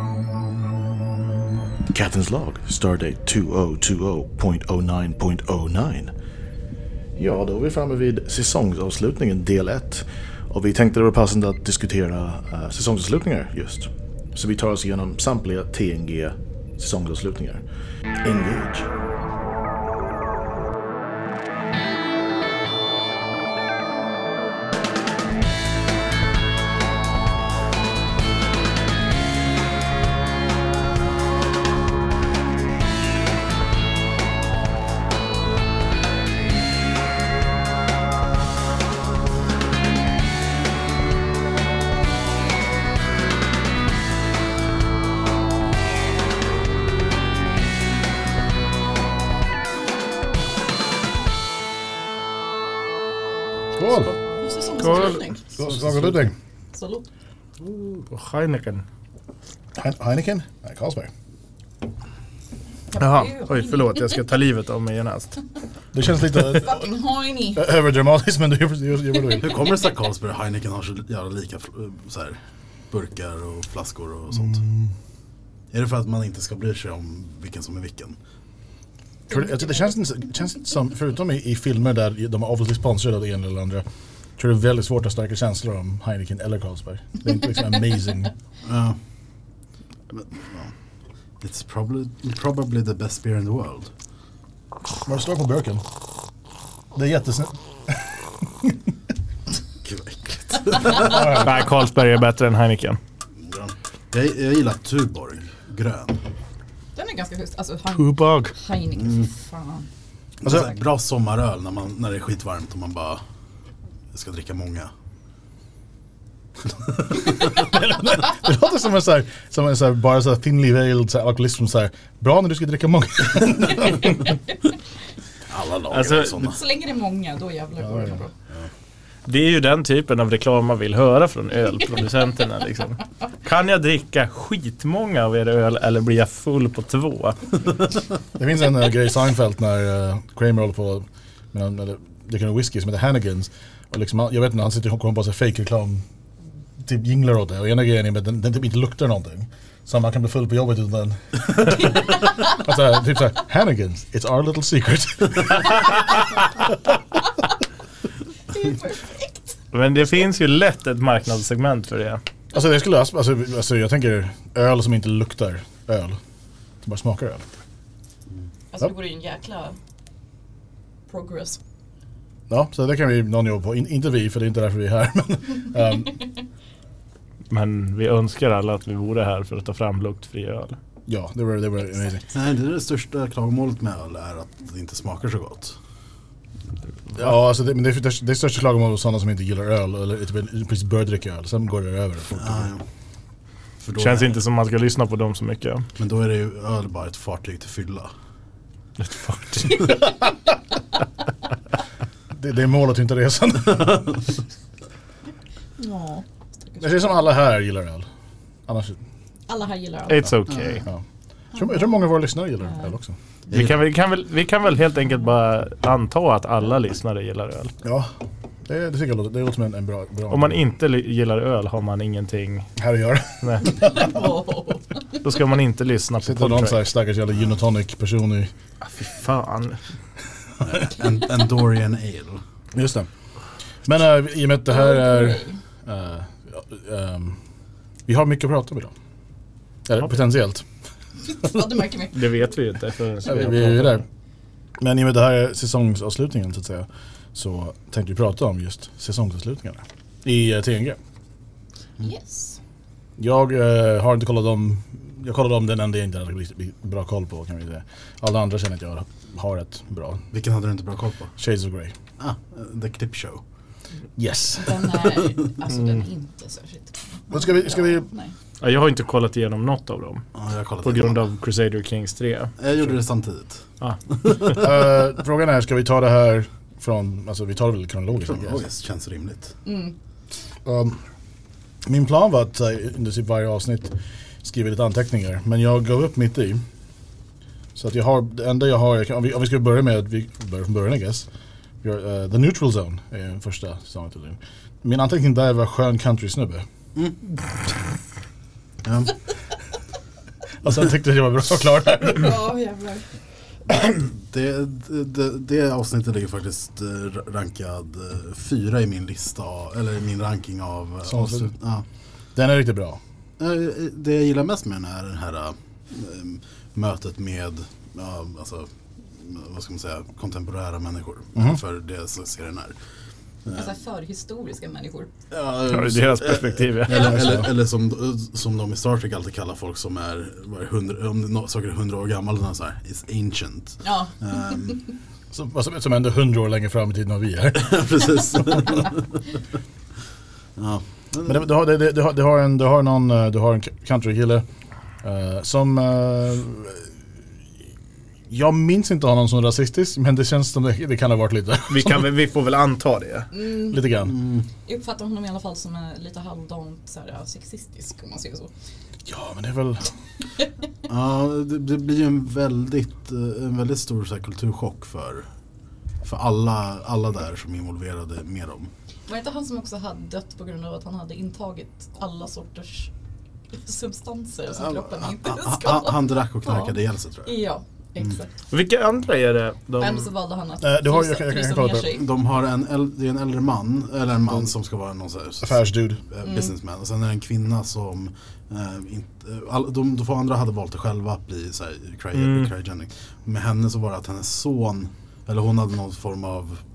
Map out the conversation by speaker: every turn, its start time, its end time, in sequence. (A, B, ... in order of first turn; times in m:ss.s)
0:01.9-0:06.0 A
0:07.2-0:10.0 A
0:10.6-0:17.6 A
0:18.2-0:18.8 A
0:53.8-0:54.1 B
0:54.4-0:55.4 C
0:54.8-0:55.3 D
0:55.6-0:56.3 B
0:56.7-0:57.0 C
0:57.6-0:58.8 D
0:59.8-1:01.1 B
1:02.9-1:04.1 C
1:03.0-1:05.4 D
1:05.9-1:06.9 B
1:06.4-1:07.7 C
1:07.6-1:09.6 B
1:09.4-1:12.4 E
1:12.9-1:14.6 E
1:15.7-1:18.2 E
1:19.3-1:23.8 B
1:24.4-1:28.3 B
1:28.6-1:29.0 E
1:30.1-1:30.7 E
1:31.4-1:33.9 E
1:35.0-1:35.8 B
1:36.9-1:38.8 B
1:39.8-1:41.4 E
1:40.9-1:43.0 D
1:41.0-1:41.4 B
1:43.4-1:46.2 E
1:46.9-1:49.9 C
1:48.0-1:48.5 B
1:50.4-1:53.2 E
1:54.1-1:54.9 E
1:57.2-2:04.2 B
2:05.5-2:06.6 E
2:05.9-2:06.4 D
2:06.3-2:08.3 C
2:09.3-2:17.6 D
2:18.3-2:26.0 B
2:26.8-2:36.1 B
2:38.5-2:39.5 C
2:39.7-2:42.2 D
2:42.5-2:46.2 B
2:46.8-2:47.4 B
2:48.7-2:49.8 C
2:51.1-2:51.6 C
2:52.5-2:56.2 B
2:57.5-3:00.8 D
3:01.1-3:02.2 B
3:02.3-3:05.8 E
3:07.2-3:12.7 B
3:12.4-3:12.8 E
3:13.8-3:14.3 E
3:14.0-3:15.9 D
3:16.0-3:18.1 E
3:19.0-3:20.0 D
3:22.3-3:24.2 B
3:25.8-3:27.2 C
3:26.8-3:28.1 B
3:28.7-3:29.0 B
3:29.5-3:30.3 C
3:30.1-3:30.8 D
3:30.5-3:30.8 E
3:31.5-3:33.2 B
3:33.5-3:33.8 E
3:33.5-3:37.7 D
3:37.8-3:38.1 B
3:38.7-3:40.5 B
3:40.3-3:42.7 D
3:42.8-3:43.8 B
3:43.4-3:43.7 D
3:43.6-3:45.0 C
3:45.2-3:46.8 D
3:46.2-3:48.5 B
3:48.8-3:49.8 D
3:50.6-3:52.4 E
3:52.7-3:53.1 B
3:53.8-3:57.4 B
3:54.7-3:55.6 C
3:58.1-3:58.9 B
3:59.9-4:00.6 B
4:01.3-4:02.2 C
4:02.1-4:04.0 D
4:03.3-4:04.0 B
4:04.8-4:11.0 B
4:12.0-4:12.6 C
4:13.2-4:20.2 B
4:20.3-4:21.3 E
4:21.4-4:21.9 B
4:22.2-4:23.4 E
4:24.2-4:25.0 B
4:24.6-4:28.3 C
4:27.3-4:28.0 B
4:28.6-4:30.2 D
4:30.4-4:31.2 E
4:30.8-4:32.5 D
4:32.6-4:33.6 E
4:33.8-4:34.5 D
4:34.2-4:34.5 E
4:34.5-4:38.6 B
4:38.2-4:39.5 E
4:39.6-4:39.9 C
4:40.6-4:41.0 B
4:41.8-4:46.6 B
4:47.8-4:51.3 B
4:51.8-4:56.6 B
4:58.8-4:59.1 E
5:00.6-5:02.3 B
5:02.1-5:03.0 C
5:03.8-5:11.8 E
5:11.1-5:11.5 B
5:12.4-5:13.0 B
5:13.4-5:22.8 E
5:23.5-5:25.1 C
5:25.3-5:34.8 E
5:25.7-5:27.3 D
5:27.0-5:27.5 B
5:33.8-5:34.8 C
5:35.3-5:37.8 B
5:37.5-5:39.0 E
5:40.6-5:41.4 E
5:41.2-5:44.4 B
5:45.0-5:46.8 B
5:48.3-5:52.1 B
5:51.7-5:53.3 D
5:53.3-5:53.9 C
5:53.6-5:54.1 B
5:54.1-5:54.4 E
5:54.6-5:58.5 C
5:59.1-5:59.8 B
6:00.9-6:05.3 E
6:06.0-6:08.7 E
6:09.1-6:12.9 C
6:13.5-6:18.3 C
6:14.6-6:17.3 E
6:18.5-6:20.1 D
6:19.8-6:22.1 C
6:20.6-6:22.0 B
6:21.9-6:36.6 E
6:25.4-6:26.0 B
6:26.2-6:26.5 C
6:32.1-6:32.5 D